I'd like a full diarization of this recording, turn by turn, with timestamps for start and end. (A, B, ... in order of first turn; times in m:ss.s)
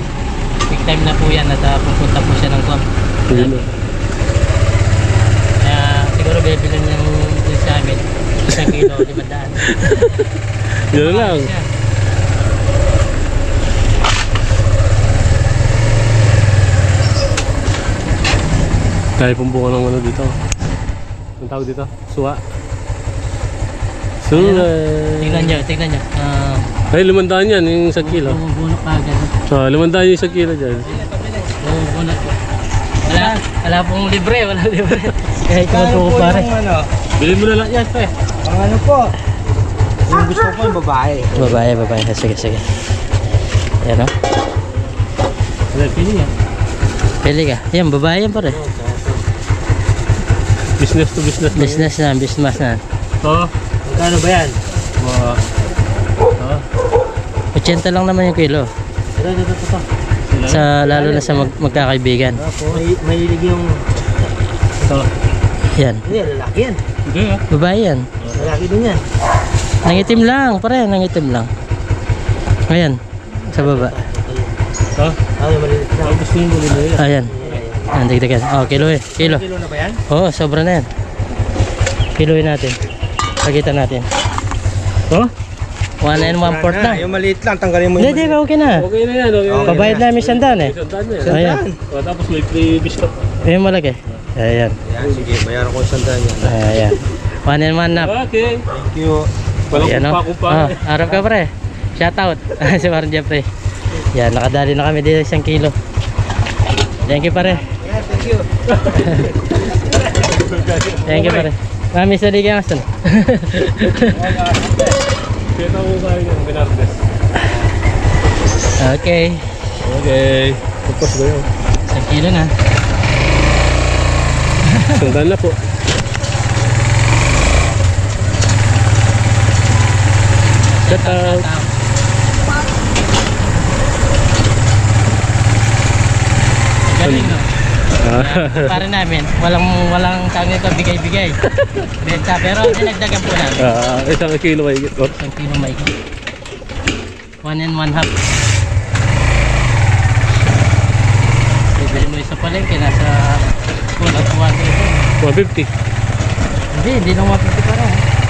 0:00.6-0:03.7 A
0:03.3-0:03.7 B
0:05.6-0:10.1 A
0:08.5-0:09.1 B
0:09.6-0:11.5 B
0:10.9-0:11.7 A
0:19.2-0:20.4 B
0:21.4-0:22.4 B
0:24.2-0:25.6 B
0:24.3-0:26.7 A
0:26.9-0:28.4 B
0:28.0-0:29.3 A
0:29.5-0:31.0 B
0:30.9-0:31.6 C
0:31.6-0:32.4 A
0:33.0-0:36.5 A
0:33.0-0:33.4 C
0:35.5-0:36.9 C
0:37.1-0:38.2 B
0:38.4-0:39.1 C
0:40.0-0:41.6 C
0:41.3-0:42.7 A
0:43.8-0:44.1 A
0:45.7-0:46.3 B
0:47.2-0:48.6 A
0:48.5-0:49.2 B
0:50.8-0:52.0 B
0:51.5-0:52.8 A
0:53.2-0:53.5 B
0:53.8-0:54.6 C
0:55.0-0:55.4 B
0:57.5-0:58.7 A
0:59.2-0:59.8 C
1:00.2-1:01.5 B
1:00.4-1:02.4 A
1:01.0-1:01.4 C
1:02.4-1:02.8 B
1:02.6-1:03.8 C
1:04.8-1:05.1 B
1:05.7-1:06.0 A
1:06.0-1:06.8 C
1:07.0-1:07.4 B
1:07.5-1:08.1 A
1:08.2-1:08.5 B
1:08.3-1:09.0 C
1:09.8-1:11.5 A
1:12.7-1:13.0 A
1:13.5-1:13.9 A
1:13.5-1:14.5 C
1:15.4-1:16.2 C
1:16.0-1:17.6 B
1:17.0-1:17.3 A
1:17.3-1:17.9 C
1:17.9-1:19.4 A
1:19.1-1:20.0 C
1:20.1-1:20.9 A
1:22.2-1:22.8 A
1:23.4-1:24.1 A
1:26.0-1:27.0 A
1:26.1-1:28.4 C
1:28.0-1:28.8 A
1:28.7-1:33.4 B
1:29.5-1:30.0 C
1:29.6-1:30.7 A
1:31.2-1:31.8 C
1:31.2-1:31.6 A
1:33.4-1:34.8 A
1:34.8-1:36.5 C
1:35.0-1:35.4 B
1:36.4-1:38.1 A
1:37.9-1:38.6 B
1:38.7-1:39.3 C
1:39.7-1:41.2 B
1:39.7-1:43.5 A
1:44.0-1:45.7 A
1:47.0-1:47.7 A
1:47.6-1:48.5 C
1:48.6-1:51.5 B
1:48.9-1:49.3 A
1:49.8-1:50.2 C
1:51.0-1:54.2 A
1:53.8-1:54.7 B
1:54.3-1:54.8 C
1:55.5-1:57.0 B
1:58.8-1:59.6 A
1:59.8-2:01.5 B
2:01.9-2:02.5 A
2:04.7-2:05.1 A
2:04.9-2:05.6 B
2:10.7-2:11.7 A
2:10.9-2:11.5 B
2:16.9-2:17.5 A
2:17.0-2:17.4 B
2:18.0-2:18.8 B
2:18.1-2:21.4 A
2:21.5-2:21.9 B
2:22.0-2:23.7 A
2:23.6-2:25.2 B
2:25.1-2:25.9 A
2:27.4-2:28.1 A
2:31.7-2:35.0 A
2:35.2-2:35.7 B
2:36.7-2:38.0 A